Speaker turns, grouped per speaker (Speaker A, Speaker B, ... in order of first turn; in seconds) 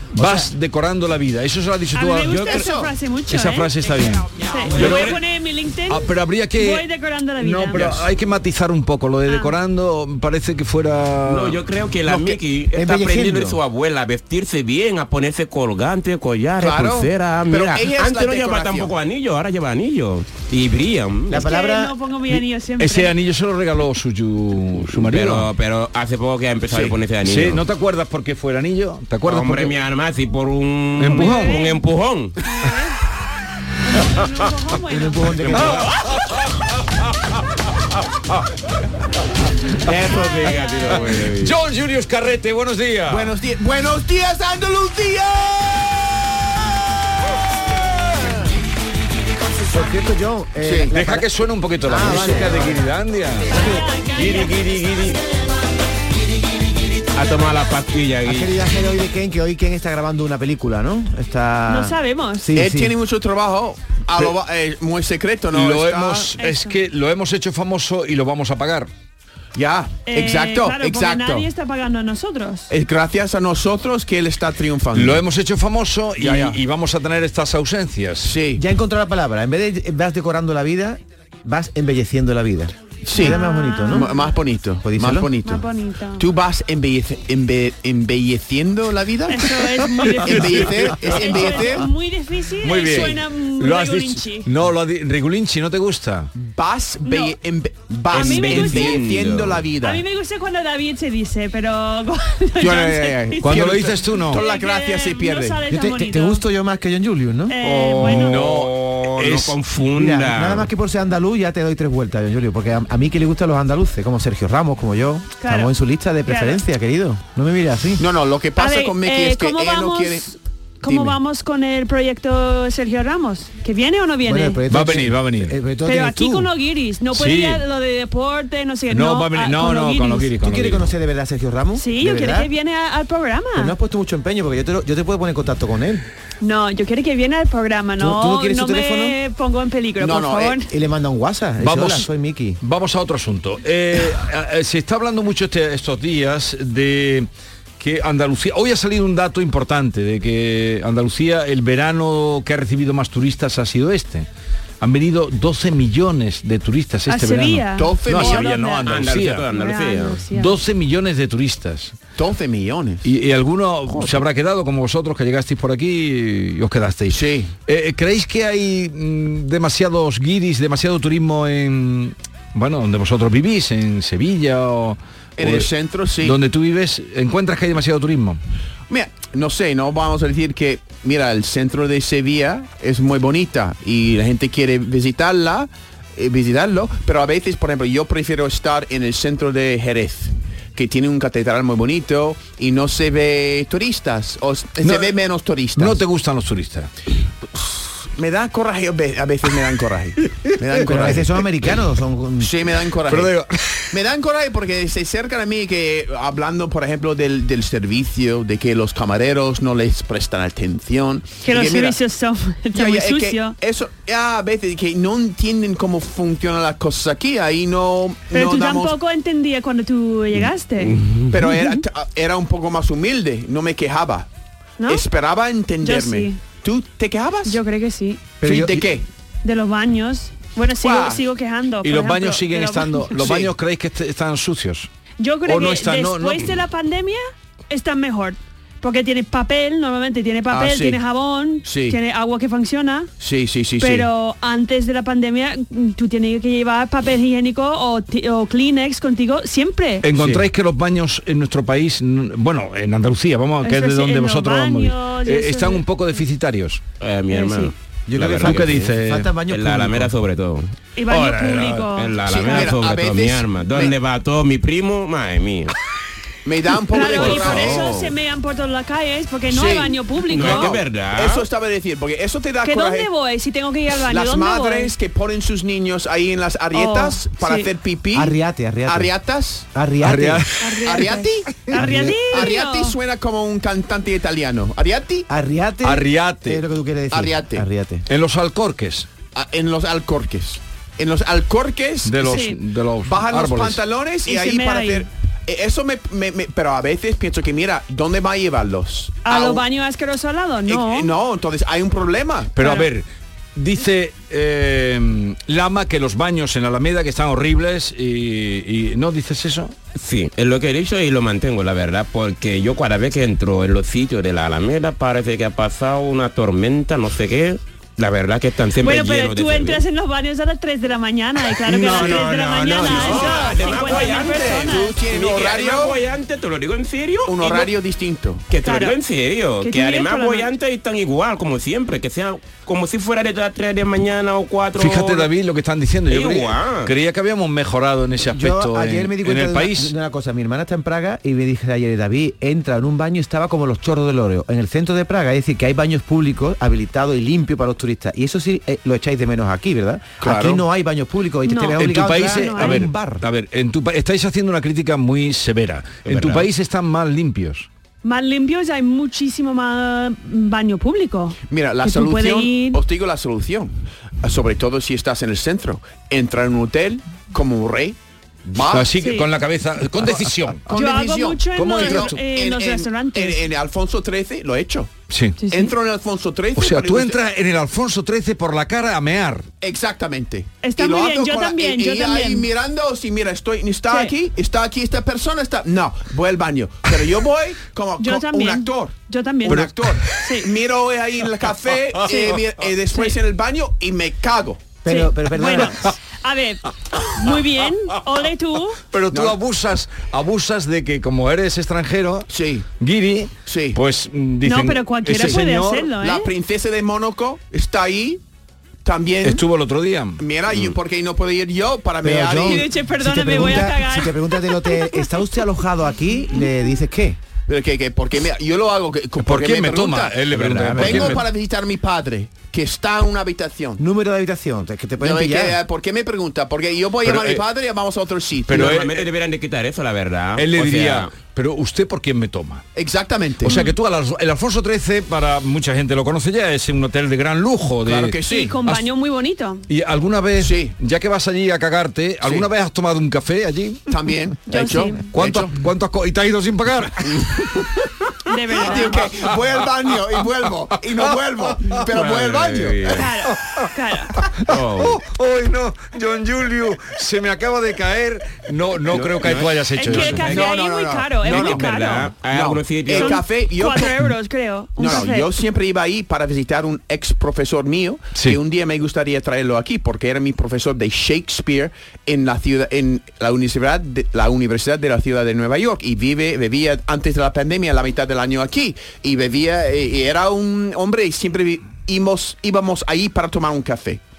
Speaker A: 0.1-2.6, 3.3-5.2, 5.9-6.8, 7.4-11.6, 22.3-25.5, 27.2-29.7, 31.0-31.6, 35.5-36.3, 41.1-43.3, 50.9-55.2, 65.5-68.9, 74.9-78.4, 90.0-90.6, 92.6-96.3, 103.4-104.4, 107.6-109.6, 124.7-125.5, 127.1-127.6, 128.9-130.9, 141.6-142.1, 142.6-147.3, 147.8-154.3, 154.8-159.5, 160.3-161.9, 163.0-178.4, 194.8-195.1, 195.7-196.9, 203.1-203.9, 231.8-234.9, 235.4-236.6, 250.0-256.8, 258.4-259.3, 261.1-261.9, 280.0-280.5, 281.7-282.3, 285.8-286.6, 288.1-289.1, 292.0-293.8, 302.6-309.7, 334.8-339.9, 351.8-357.7, 368.6-370.6, 371.5-372.2, 375.1-375.4, 376.6-379.5, 398.9-402.3, 402.8-405.9, 409.2-410.2, 419.2-421.2, 427.0-427.4, 428.5-429.1, 430.4-432.6, 433.4-438.9, 439.7-443.8, 445.1-447.3, 454.2-460.4, 468.1-468.4
Speaker B: 0.2-0.5, 12.7-13.6, 21.3-21.9, 34.9-35.9, 49.6-51.3, 51.8-52.8, 58.2-62.9, 78.5-84.1, 84.8-85.3, 105.7-107.5, 110.0-118.0, 124.2-126.5, 130.4-132.5, 133.6-136.0, 138.0-139.2, 140.7-142.6, 200.8-202.5, 228.4-228.8, 258.1-260.1, 278.1-279.1, 279.7-280.5, 285.3-288.1, 338.3-353.2, 394.8-395.9, 412.0-417.2, 423.8-425.6
Speaker C: 1.9-3.7, 4.3-8.0, 9.2-9.5, 21.3-23.1, 31.1-31.8, 32.4-33.0, 33.8-35.4, 40.4-40.7, 53.5-54.8, 61.7-62.5, 66.4-66.8, 70.0-72.7, 83.2-84.3, 85.4-86.2, 89.3-94.5, 97.0-97.3, 98.1-99.0, 99.8-106.4, 107.5-108.5, 115.4-115.7, 116.2-116.6, 118.6-124.6, 125.8-130.3, 131.8-133.7, 136.4-140.7, 157.1-160.6, 211.4-213.5, 218.3-220.9, 225.8-226.4, 227.4-228.3, 229.4-233.1, 235.2-243.1, 243.8-250.1, 253.6-255.8, 257.3-257.7, 261.0-262.7, 266.9-270.8, 272.6-274.9, 276.7-277.7, 280.6-282.9, 292.2-292.6, 294.3-295.0, 299.2-301.1, 302.6-302.9, 318.8-324.9, 328.6-328.9, 329.6-330.5, 351.4-352.9, 358.0-362.8, 369.0-369.3, 370.7-373.4, 375.4-375.7, 380.6-382.5, 388.0-390.5, 394.9-398.8, 404.4-406.3, 412.4-415.0, 438.3-439.6, 444.5-445.0, 448.3-449.0, 452.9-454.2, 459.7-462.1, 462.9-465.3
Speaker D: 2.5-2.9, 16.6-18.9, 26.7-26.9, 43.1-46.0, 50.6-50.9, 62.5-66.3, 69.5-71.5, 72.7-75.2, 76.2-76.6, 78.2-78.6, 83.0-85.6, 86.2-89.5, 90.2-91.9, 96.3-100.0, 102.6-105.6, 118.0-120.3, 120.8-121.2, 140.0-140.6, 157.8-158.5, 162.2-163.1, 167.1-167.5, 175.4-176.4, 178.9-196.0, 197.5-201.4, 202.4-203.3, 203.9-212.0, 212.7-218.9, 221.3-224.3, 224.9-227.6, 228.4-229.0, 230.8-231.2, 233.2-233.5, 240.5-241.0, 241.6-242.0, 243.2-244.1, 262.3-263.9, 266.4-268.1, 269.5-273.1, 274.1-279.7, 280.8-285.3, 287.1-287.6, 289.3-292.4, 293.0-299.6, 300.7-302.6, 321.6-326.0, 327.2-328.4, 350.2-350.6, 361.5-368.9, 370.7-375.0, 375.5-377.2, 379.6-394.7, 399.1-399.4, 402.3-402.7, 403.4-403.8, 406.0-408.2, 408.8-409.4, 410.2-412.7, 417.5-423.8, 425.0-428.8, 432.7-433.6, 437.8-438.6, 440.4-440.7, 443.9-445.5, 448.5-453.0, 460.2-461.7, 462.3-464.0, 464.8-484.0
Speaker E: 4.7-5.2, 11.2-21.4, 24.9-27.6, 29.2-32.4, 39.8-41.5, 57.1-58.6, 98.1-99.7, 108.1-110.7, 158.8-160.2, 220.8-221.4, 257.0-258.8, 259.5-260.7, 261.9-265.7, 266.9-267.9, 270.3-271.4, 309.9-319.8, 321.7-327.7, 328.5-335.3, 336.1-336.9, 356.1-356.5, 420.3-421.2, 428.5-431.1, 451.9-453.1, 454.5-455.0, 458.9-460.5, 461.2-463.2